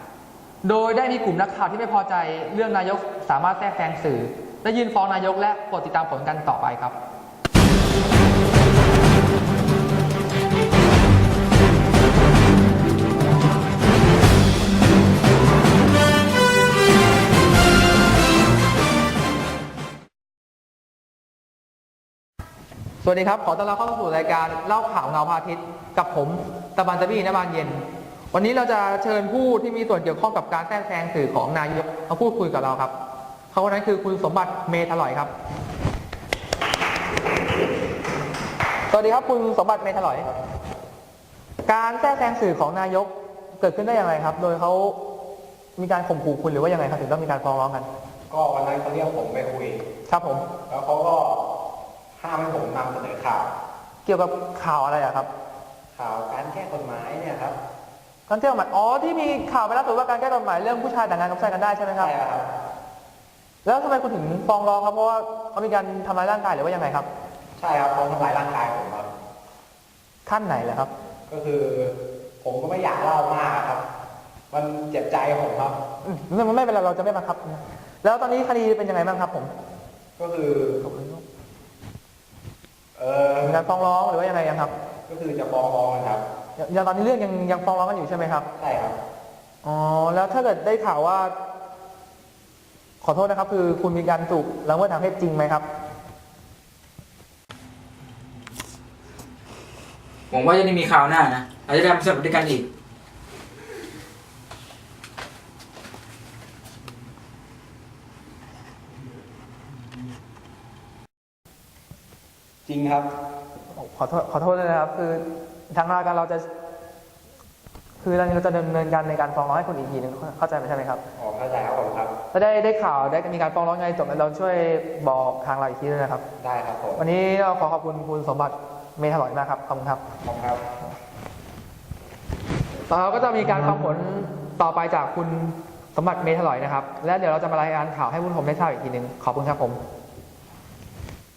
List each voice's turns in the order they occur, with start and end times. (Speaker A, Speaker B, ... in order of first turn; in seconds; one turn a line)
Speaker A: 0.6-6.9
Speaker A: 23.0-32.9
Speaker A: 33.5-35.3
Speaker A: 38.9-40.3
Speaker A: 41.7-45.0
Speaker A: 45.8-47.9
Speaker B: 48.3-49.8
Speaker A: 50.1-50.5
Speaker B: 50.7-51.4
Speaker B: 52.2-53.5
Speaker A: 54.0-55.3
Speaker B: 56.0-57.6
Speaker A: 58.3-62.1
Speaker B: 62.0-62.5
Speaker A: 63.6-67.1
Speaker B: 67.6-69.1
Speaker A: 70.3-70.9
Speaker B: 71.3-73.8
Speaker B: 74.5-75.8
Speaker A: 76.0-79.5
Speaker B: 80.2-80.8
Speaker A: 80.8-81.2
Speaker B: 83.0-83.6
Speaker A: 83.4-84.7
Speaker B: 85.1-86.2
Speaker A: 86.6-88.5
Speaker B: 88.6-89.0
Speaker A: 89.6-91.3
Speaker A: 93.0-95.7
Speaker C: 100.3-102.7
Speaker B: 112.7-113.1
Speaker A: 113.7-116.5
Speaker A: 118.0-121.0
Speaker B: 121.2-122.1
Speaker A: 122.3-126.2
Speaker B: 126.4-127.1
Speaker A: 127.0-130.0
Speaker B: 130.2-130.6
Speaker A: 132.9-139.8